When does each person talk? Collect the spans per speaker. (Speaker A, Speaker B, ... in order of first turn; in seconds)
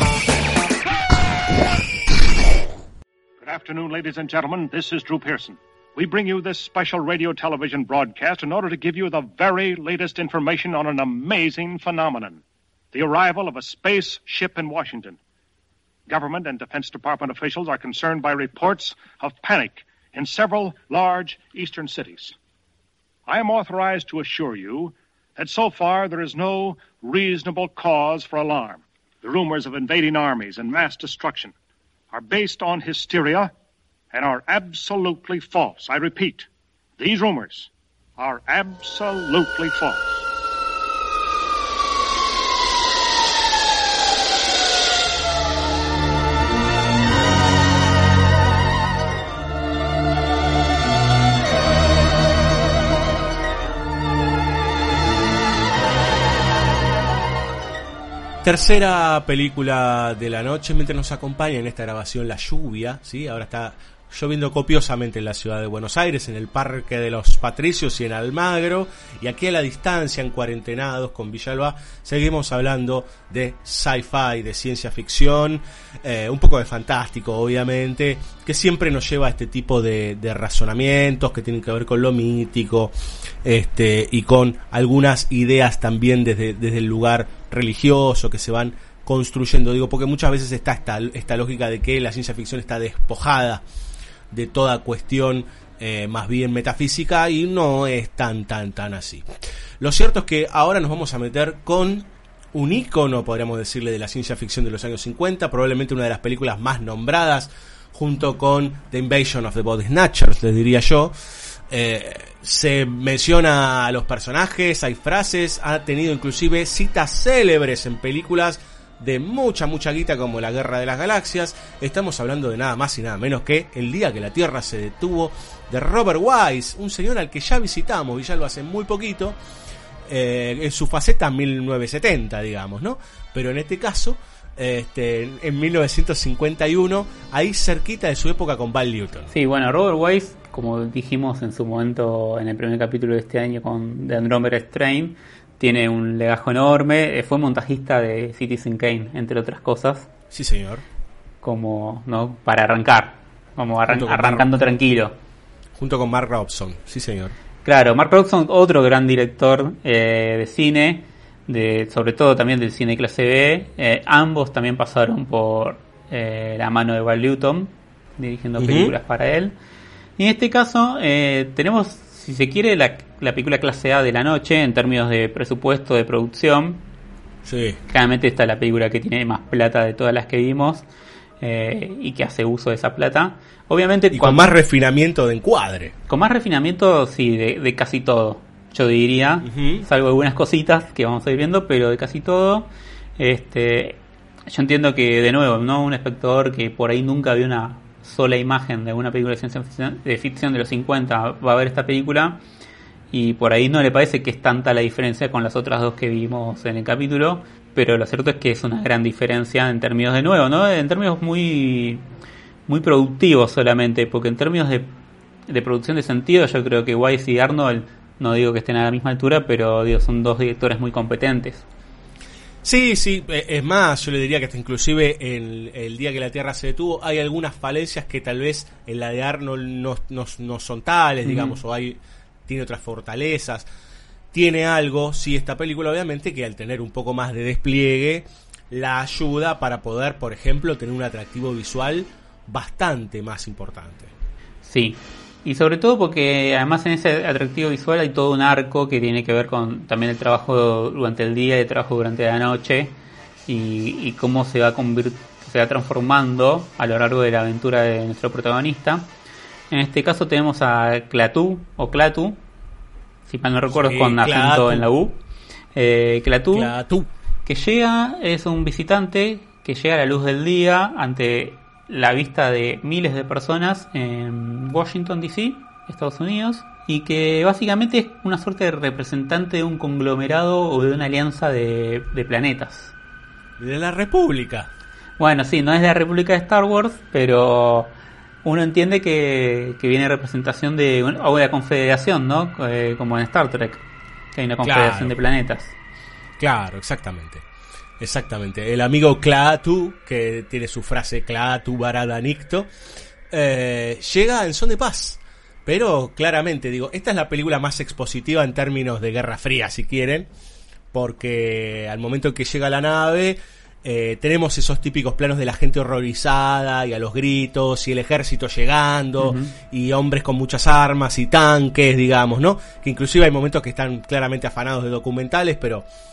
Speaker A: 3.4-12.4, 12.9-15.2, 16.1-22.3, 23.3-31.5, 32.1-33.5, 34.1-36.5, 37.0-40.2
Speaker B: 58.4-93.6, 94.3-99.3, 99.8-111.1, 111.7-129.4, 130.1-139.3, 150.3-150.8, 153.9-154.5, 155.8-157.3, 168.6-168.9, 177.4-177.8, 184.1-185.9, 189.4-189.8, 222.6-233.7, 234.3-244.1, 263.7-264.9, 266.5-267.1, 283.6-284.7, 294.6-295.1, 296.4-297.4, 298.0-302.7, 303.3-310.3, 310.9-325.9
Speaker C: 139.3-150.1, 151.4-155.1, 157.6-169.5, 170.2-176.8, 177.9-180.8, 181.4-184.5, 186.1-202.4, 203.1-212.0, 212.7-214.9, 215.5-221.7, 231.2-231.6, 244.6-252.9, 253.5-259.1, 259.7-262.4, 263.3-265.1, 265.7-266.7, 267.4-282.9, 285.2-287.9, 288.4-293.8, 294.3-295.8, 319.2-319.5